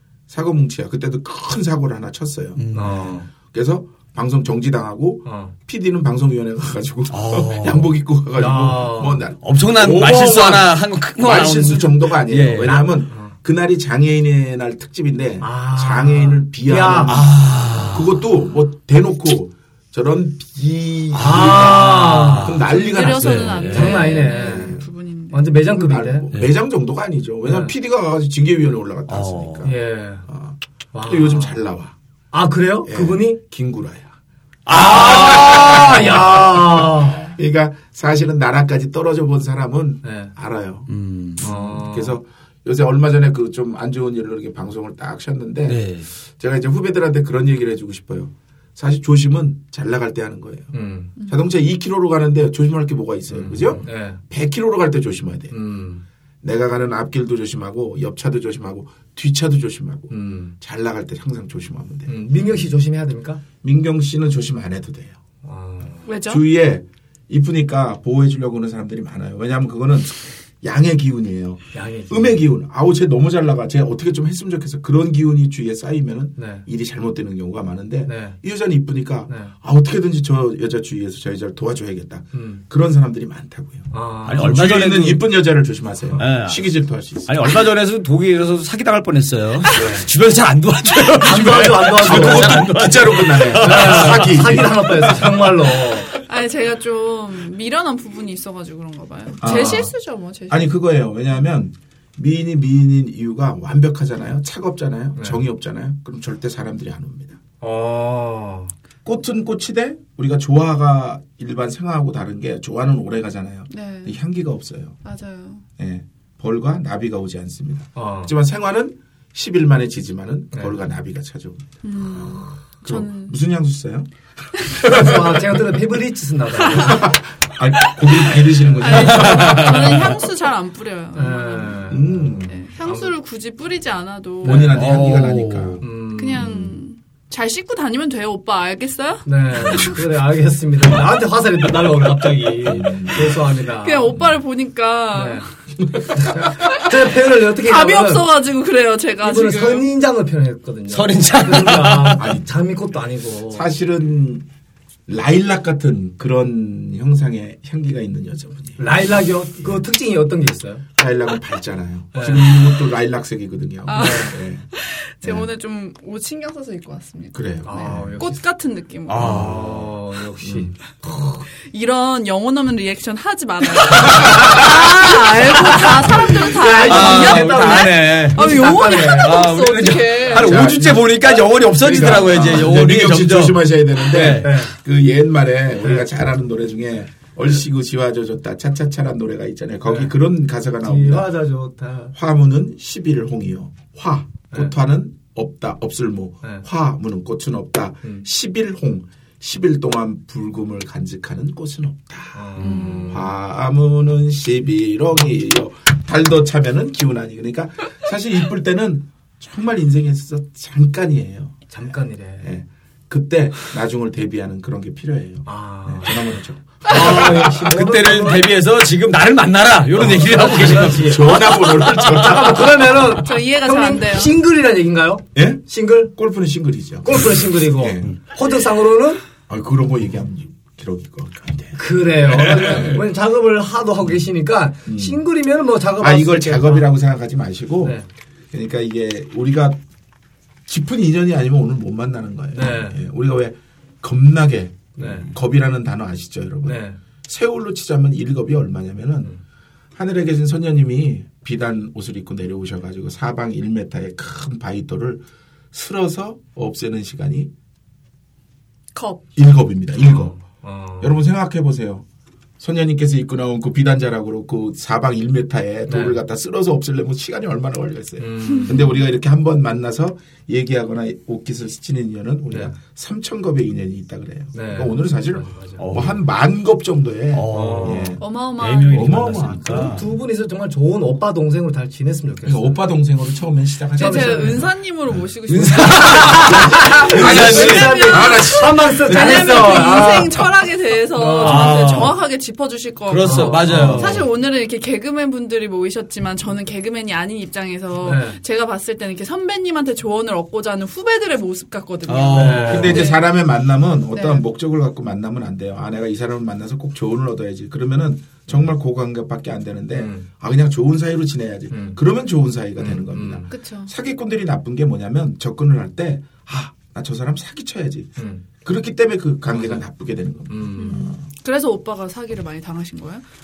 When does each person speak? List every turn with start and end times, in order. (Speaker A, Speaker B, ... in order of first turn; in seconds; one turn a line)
Speaker A: 0.3-2.6
Speaker B: 2.6-3.2
Speaker C: 2.7-3.3
Speaker A: 3.5-24.8
Speaker C: 5.2-5.5
Speaker B: 7.1-7.9
Speaker C: 8.3-9.2
Speaker B: 9.4-12.8
Speaker C: 12.6-13.3
Speaker C: 15.4-17.3
Speaker B: 17.1-18.2
Speaker C: 21.1-22.5
Speaker B: 21.1-24.1
Speaker D: 22.6-25.6
Speaker C: 23.7-24.8
Speaker C: 25.3-26.3
Speaker A: 25.6-29.8
Speaker C: 27.4-27.7
Speaker B: 29.1-29.7
Speaker C: 29.6-30.2
Speaker A: 30.3-31.9
Speaker C: 30.9-31.6
Speaker C: 32.3-33.4
Speaker A: 32.8-34.1
Speaker B: 34.6-36.4
Speaker C: 34.7-37.3
Speaker A: 35.4-45.9
Speaker C: 40.0-40.3
Speaker B: 40.9-41.5
Speaker C: 41.4-42.2
Speaker B: 45.7-46.1
Speaker A: 46.4-55.5
Speaker C: 50.7-51.1
Speaker C: 53.3-54.2
Speaker C: 55.5-56.0
Speaker A: 56.4-62.2
Speaker C: 60.1-60.5
Speaker C: 62.1-63.4
Speaker A: 63.6-65.2
Speaker C: 65.4-66.1
Speaker D: 66.0-66.4
Speaker A: 66.2-87.6
Speaker C: 71.7-72.4
Speaker C: 76.4-76.6
Speaker C: 78.1-78.4
Speaker C: 79.3-79.5
Speaker C: 82.3-82.6
Speaker C: 83.9-84.6
Speaker B: 84.2-85.2
Speaker B: 86.2-86.7
Speaker B: 87.2-95.4
Speaker C: 89.7-90.0
Speaker C: 91.2-92.7
Speaker A: 91.9-95.3
Speaker C: 93.6-96.1
Speaker D: 96.2-100.8
Speaker A: 99.4-99.9
Speaker A: 100.5-107.4
Speaker C: 105.2-105.4
Speaker C: 107.6-108.7
Speaker A: 109.0-115.0
Speaker D: 113.7-114.2
Speaker D: 115.0-115.6
Speaker A: 115.8-124.1
Speaker C: 118.0-118.3
Speaker D: 121.8-123.3
Speaker A: 124.7-125.3
Speaker C: 124.8-127.1
Speaker D: 126.6-127.0
Speaker A: 126.7-130.1
Speaker C: 128.6-128.9
Speaker D: 128.8-134.8
Speaker B: 128.9-130.2
Speaker C: 131.1-133.1
Speaker A: 131.9-132.6
Speaker A: 134.4-136.8
Speaker C: 134.4-134.8
Speaker B: 134.7-135.8
Speaker C: 135.8-136.6
Speaker D: 136.1-140.0
Speaker C: 139.2-144.2
Speaker A: 139.6-139.9
Speaker A: 142.6-143.4
Speaker D: 143.7-145.4
Speaker C: 145.1-145.4
Speaker C: 146.2-148.3
Speaker D: 146.2-149.9
Speaker C: 149.2-153.7
Speaker B: 150.9-152.2
Speaker A: 152.2-152.4
Speaker A: 153.5-154.4
Speaker A: 155.1-158.9
Speaker C: 158.8-160.8
Speaker A: 161.0-164.7
Speaker C: 162.1-162.5
Speaker D: 163.8-169.4
Speaker C: 164.0-164.3
Speaker A: 165.2-165.5
Speaker A: 167.3-168.1
Speaker C: 167.6-168.4
Speaker B: 169.1-169.9
Speaker A: 169.1-169.7
Speaker C: 169.2-171.4
Speaker A: 170.4-170.7
Speaker D: 171.7-180.7
Speaker B: 174.0-174.9
Speaker C: 174.1-175.0
Speaker C: 175.5-179.4
Speaker B: 176.8-184.6
Speaker A: 180.3-181.1
Speaker A: 181.7-191.3
Speaker C: 184.1-184.7
Speaker C: 189.9-190.1
Speaker C: 190.8-192.1
Speaker A: 192.1-211.6
Speaker C: 202.3-203.3
Speaker D: 202.6-203.2
Speaker C: 211.7-212.5
Speaker A: 212.4-217.4
Speaker C: 215.4-216.3
Speaker C: 216.8-218.5
Speaker B: 216.8-222.6
Speaker A: 220.0-222.9
Speaker C: 220.0-221.4
Speaker C: 222.0-226.1
Speaker D: 223.1-224.3
Speaker A: 225.3-225.6
Speaker A: 226.1-228.1
Speaker C: 227.0-229.2
Speaker A: 229.5-233.0
Speaker C: 231.8-236.9
Speaker A: 234.8-235.2
Speaker A: 236.0-238.0
Speaker A: 238.5-239.8
Speaker A: 240.7-249.3
Speaker C: 242.5-243.0
Speaker C: 244.9-245.3
Speaker C: 246.6-247.0
Speaker A: 249.9-257.5
Speaker D: 258.9-259.3
Speaker A: 259.4-260.3
Speaker C: 260.0-261.1
Speaker A: 261.0-262.0
Speaker A: 262.6-278.2
Speaker C: 265.9-266.2
Speaker C: 268.2-268.9
Speaker D: 268.4-268.9
Speaker C: 274.5-275.8
Speaker B: 275.8-276.2
Speaker B: 277.3-280.1
Speaker C: 277.5-278.1
Speaker D: 278.2-279.2
Speaker A: 278.9-279.9
Speaker C: 279.7-282.8
Speaker A: 282.4-285.2
Speaker D: 283.9-303.3
Speaker C: 284.0-284.7
Speaker B: 285.5-288.3
Speaker C: 286.2-290.4
Speaker A: 287.1-289.3
Speaker B: 289.1-290.3
Speaker C: 291.1-291.9
Speaker B: 291.4-292.2
Speaker B: 293.1-294.3
Speaker C: 293.2-294.2
Speaker C: 298.0-298.4
Speaker B: 302.1-303.1
Speaker C: 302.3-303.0
Speaker A: 302.6-321.2
Speaker D: 304.1-304.4
Speaker C: 309.9-310.2
Speaker C: 311.7-312.0
Speaker C: 312.8-313.5
Speaker D: 313.5-313.9
Speaker C: 318.2-318.4
Speaker C: 319.5-319.8
Speaker C: 320.5-321.1
Speaker D: 320.7-323.2